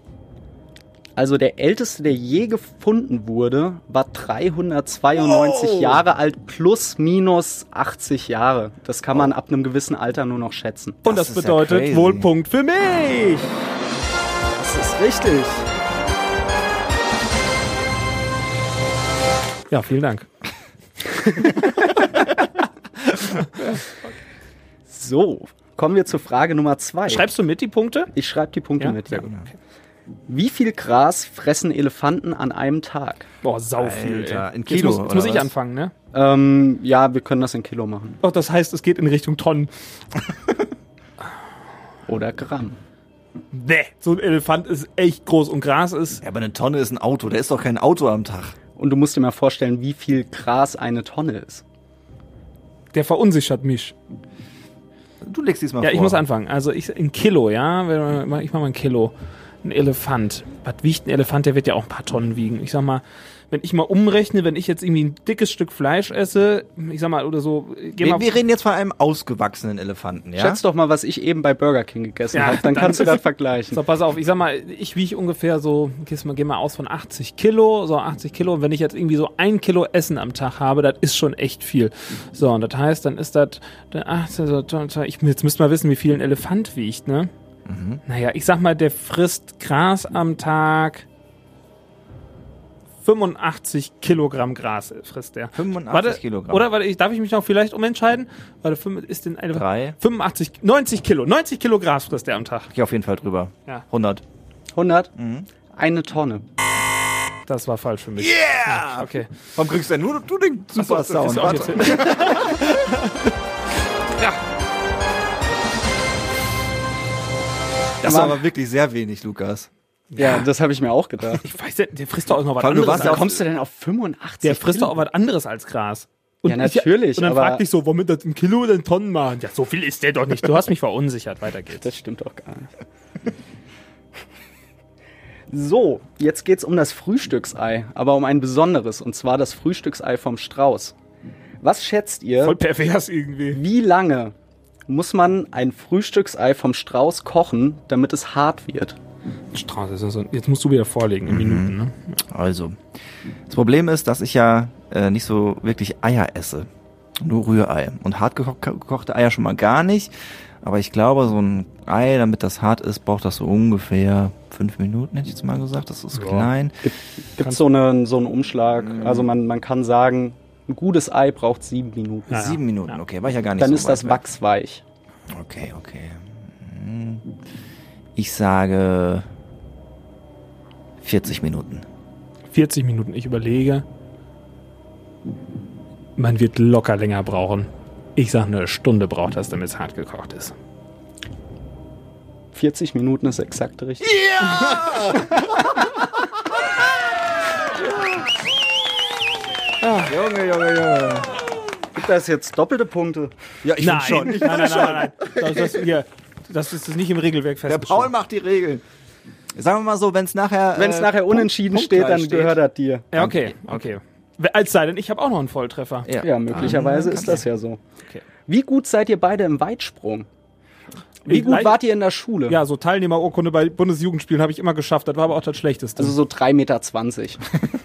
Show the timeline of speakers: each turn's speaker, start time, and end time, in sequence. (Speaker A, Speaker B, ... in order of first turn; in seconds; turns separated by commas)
Speaker A: 1.1-11.0, Speaker B: 5.2-6.0, Speaker C: 11.0-13.5, Speaker B: 11.1-12.3, Speaker A: 14.5-15.7, Speaker C: 19.7-20.3, Speaker C: 21.4-21.9, Speaker A: 24.9-27.3, Speaker C: 27.1-28.1, Speaker A: 28.1-29.3, Speaker B: 29.1-29.5, Speaker A: 30.3-33.3, Speaker C: 33.4-35.9, Speaker B: 33.8-35.5, Speaker A: 36.1-38.2, Speaker C: 38.2-39.7, Speaker A: 42.1-42.8, Speaker C: 43.5-46.2, Speaker B: 46.2-48.6, Speaker A: 48.8-51.6, Speaker C: 52.9-54.0, Speaker B: 55.2-56.2, Speaker C: 55.8-68.3, Speaker B: 68.0-70.6, Speaker A: 70.4-73.8, Speaker C: 72.3-87.3, Speaker B: 87.7-88.0, Speaker C: 88.1-91.0, Speaker C: 93.0-102.7, Speaker B: 95.5-96.7, Speaker B: 99.5-100.0, Speaker B: 102.7-104.2, Speaker A: 104.8-105.1, Speaker B: 105.1-105.5, Speaker A: 105.8-106.5, Speaker C: 107.5-109.3, Speaker B: 108.2-112.6, Speaker C: 110.8-113.3, Speaker B: 118.0-119.7, Speaker A: 118.0-118.4, Speaker C: 120.1-120.5, Speaker A: 120.2-121.5, Speaker C: 121.4-123.3, Speaker B: 122.6-123.4, Speaker A: 122.9-124.9, Speaker C: 124.4-131.8, Speaker A: 126.5-127.6, Speaker A: 131.8-132.7, Speaker A: 135.5-141.0, Speaker A: 141.6-142.6, Speaker C: 142.4-143.6, Speaker A: 143.5-144.3, Speaker A: 144.9-149.0, Speaker C: 149.5-152.2, Speaker B: 151.3-151.8, Speaker B: 152.3-152.8, Speaker B: 153.5-166.8, Speaker C: 166.1-166.5, Speaker A: 166.8-172.4, Speaker B: 168.8-169.3, Speaker C: 172.3-173.0, Speaker B: 172.3-174.2, Speaker A: 173.6-174.8, Speaker B: 175.3-177.3, Speaker B: 178.2-179.3, Speaker B: 181.0-181.9, Speaker C: 182.5-183.8, Speaker C: 186.2-190.6, Speaker A: 192.5-194.1, Speaker B: 194.0-195.8, Speaker B: 197.8-198.2, Speaker C: 199.8-200.1, Speaker B: 200.0-201.6, Speaker A: 201.9-203.3, Speaker B: 203.6-205.8, Speaker C: 203.8-208.1, Speaker B: 207.7-208.8, Speaker B: 209.6-212.6, Speaker A: 210.8-213.1, Speaker C: 213.1-216.1, Speaker B: 213.1-214.0, Speaker B: 216.1-217.4, Speaker A: 216.2-217.8, Speaker A: 218.5-220.3, Speaker A: 221.3-222.6, Speaker C: 221.3-221.8, Speaker C: 222.5-226.2, Speaker A: 226.0-227.4